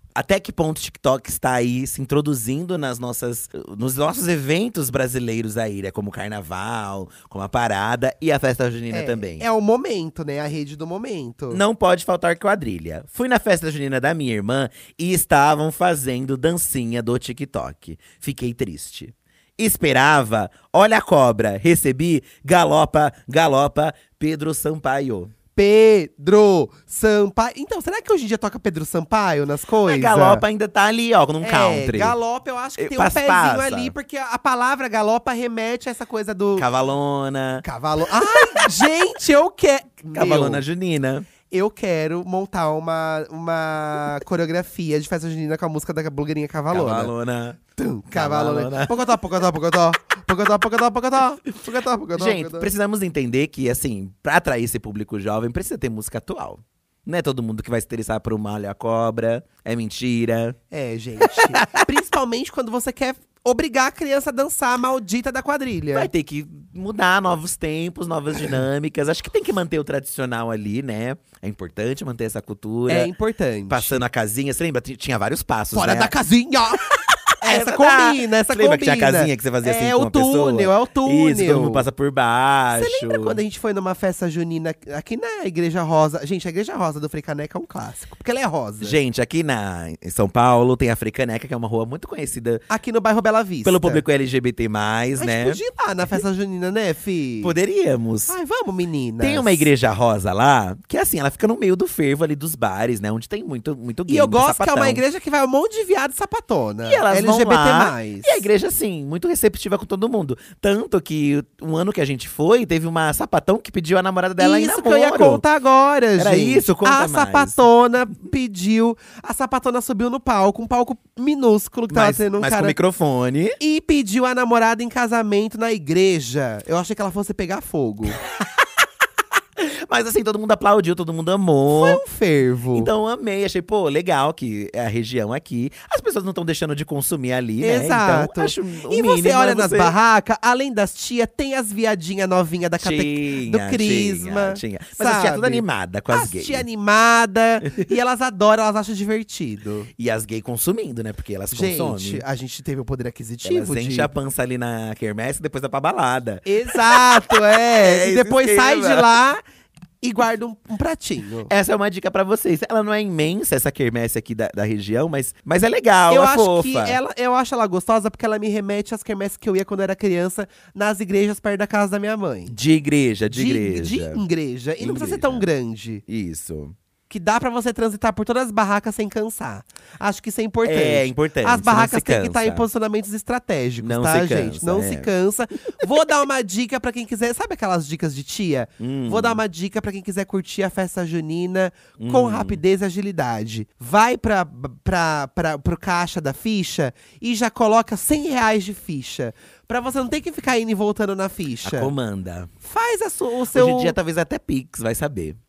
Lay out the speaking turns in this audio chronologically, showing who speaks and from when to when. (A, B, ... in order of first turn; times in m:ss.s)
0:00.1-0:09.4 A
0:08.9-0:11.6 B
0:11.5-0:25.3 A
0:25.5-0:30.4 B
0:29.8-0:32.2 A
0:31.4-0:36.7 B
0:32.8-0:33.9 A
0:36.6-0:38.7 A
0:37.6-0:40.6 B
0:40.1-0:41.3 A
0:41.5-0:47.1 B
0:46.7-0:47.6 A
0:47.8-0:52.7 B
0:48.1-0:49.0 A
0:52.1-1:00.6 A
1:00.7-1:06.1 B
1:01.3-1:01.8 A
1:05.9-1:13.1 A
1:12.9-1:14.0 B
1:13.7-1:16.1 A
1:15.7-1:16.9 B
1:17.1-1:23.4 A
1:17.4-1:21.8 B
1:22.7-1:29.0 B
1:28.8-1:32.6 A
1:32.7-1:34.0 B
1:33.6-1:35.6 A
1:35.2-1:37.5 B
1:37.4-1:38.3 A
1:38.3-1:39.7 B
1:39.2-1:45.0 A
1:44.1-1:48.4 B
1:46.8-1:55.4 A
1:54.4-2:02.8 B
1:56.2-1:57.6 A
2:01.9-2:03.6 A
2:03.6-2:08.2 B
2:09.6-2:12.0 A
2:11.7-2:12.9 B
2:12.7-2:19.9 A
2:17.6-2:29.9 B
2:22.8-2:26.6 A
2:30.0-2:32.2 A
2:31.5-2:34.1 B
2:33.4-2:39.1 A
2:36.4-2:39.4 B
2:40.0-2:41.5 B
2:41.5-2:47.0 A
2:46.1-2:52.5 B
2:52.5-2:54.2 A
2:53.3-2:56.0 B
2:54.8-2:55.4 A
2:56.1-2:56.7 A
2:57.1-3:21.9 B
3:00.6-3:02.6 A
3:03.8-3:05.1 A
3:08.8-3:09.4 A
3:12.0-3:12.6 A
3:21.6-3:22.5 A
3:22.6-3:24.0 B
3:23.5-3:25.4 A